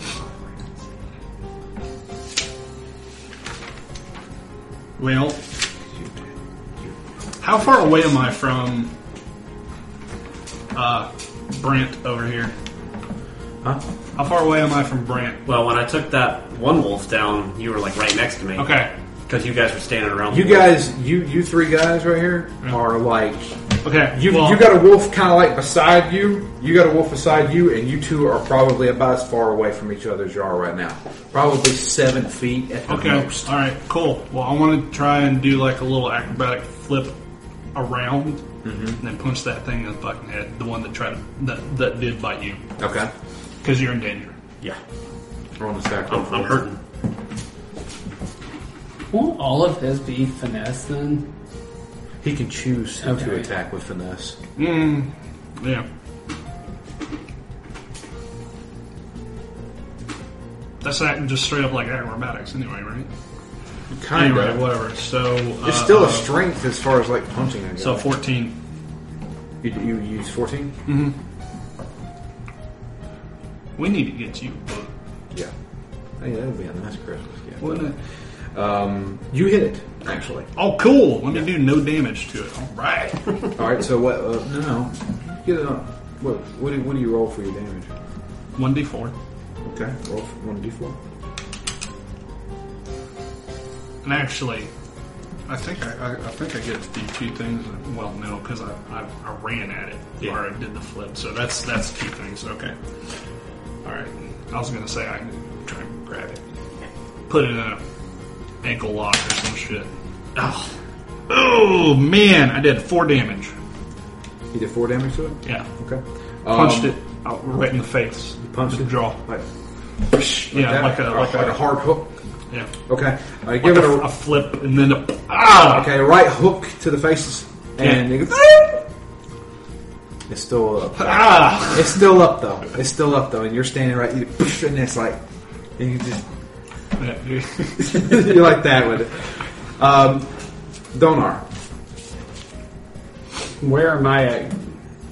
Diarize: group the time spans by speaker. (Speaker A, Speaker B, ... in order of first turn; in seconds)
Speaker A: 5.0-5.4, 7.4-8.9, 10.7-12.5, 14.2-15.4, 18.6-18.9, 23.8-24.7, 32.9-37.2, 37.7-38.5, 39.0-42.6, 43.6-44.4, 54.6-55.9, 60.8-63.1, 64.2-66.3, 67.8-68.5, 70.9-71.2, 73.8-74.9, 77.6-78.0, 80.5-83.5, 88.6-89.1, 94.0-94.7, 95.5-102.8, 103.8-106.4, 107.3-107.8, 108.6-109.9, 111.3-113.5, 116.5-119.2, 120.5-121.6, 123.6-125.9, 127.8-128.1, 131.0-132.0, 137.0-138.3
Speaker B: 15.5-20.8, 46.1-46.8
Speaker C: 20.3-23.6, 24.1-33.5, 38.6-39.0, 42.8-43.1, 45.6-46.6, 52.2-54.4, 63.9-64.7, 65.6-68.1, 69.6-70.8, 76.2-78.0, 78.5-80.5, 83.6-87.9, 89.7-91.0, 114.5-117.0, 118.4-119.5, 120.1-122.1, 122.9-124.1, 125.7-128.8, 130.3-135.2, 135.8-136.2, 137.9-140.3, 140.9-141.5
Speaker D: 49.1-51.3, 53.0-53.5, 143.6-144.7